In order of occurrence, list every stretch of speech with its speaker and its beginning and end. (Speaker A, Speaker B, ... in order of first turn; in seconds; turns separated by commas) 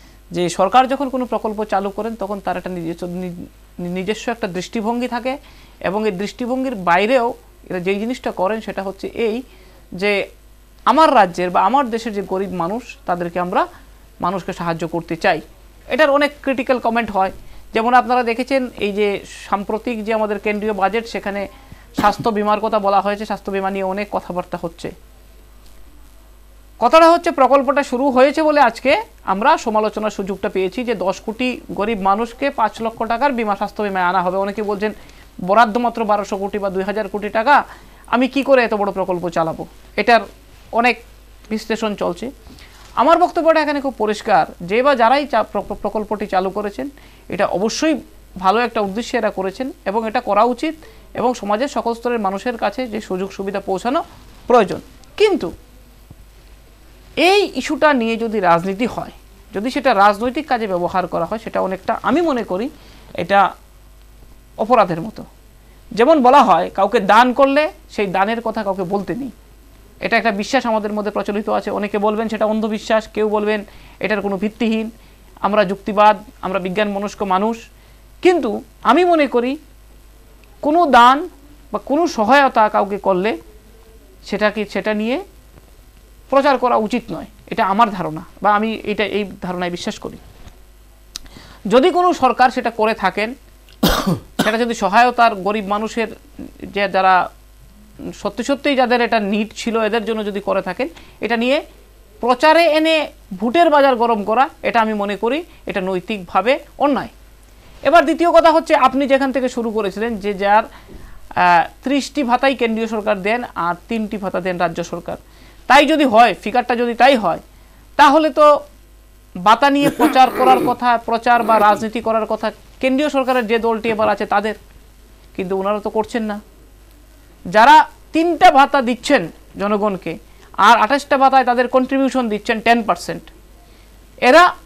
Speaker A: 0.3-5.3, Speaker A: 5.9-9.4, Speaker A: 10.9-13.6, Speaker A: 14.2-21.4, Speaker A: 22.0-24.9, Speaker A: 26.8-34.9, Speaker A: 35.5-37.6, Speaker A: 38.1-40.2, Speaker A: 40.8-42.3, Speaker A: 43.0-55.5, Speaker A: 57.2-62.7, Speaker A: 64.6-65.2, Speaker A: 66.0-69.3, Speaker A: 70.0-74.9, Speaker A: 75.4-77.6, Speaker A: 78.2-79.5, Speaker A: 80.6-81.2, Speaker A: 81.7-83.3, Speaker A: 84.3-85.2, Speaker A: 86.3-90.2, Speaker A: 91.7-93.3, Speaker A: 94.4-96.1, Speaker A: 96.7-97.2, Speaker A: 98.2-101.6, Speaker A: 102.2-107.1, Speaker A: 107.8-110.6, Speaker A: 111.4-117.4, Speaker A: 118.0-118.5, Speaker A: 119.4-124.6, Speaker A: 125.3-126.4, Speaker A: 127.5-133.3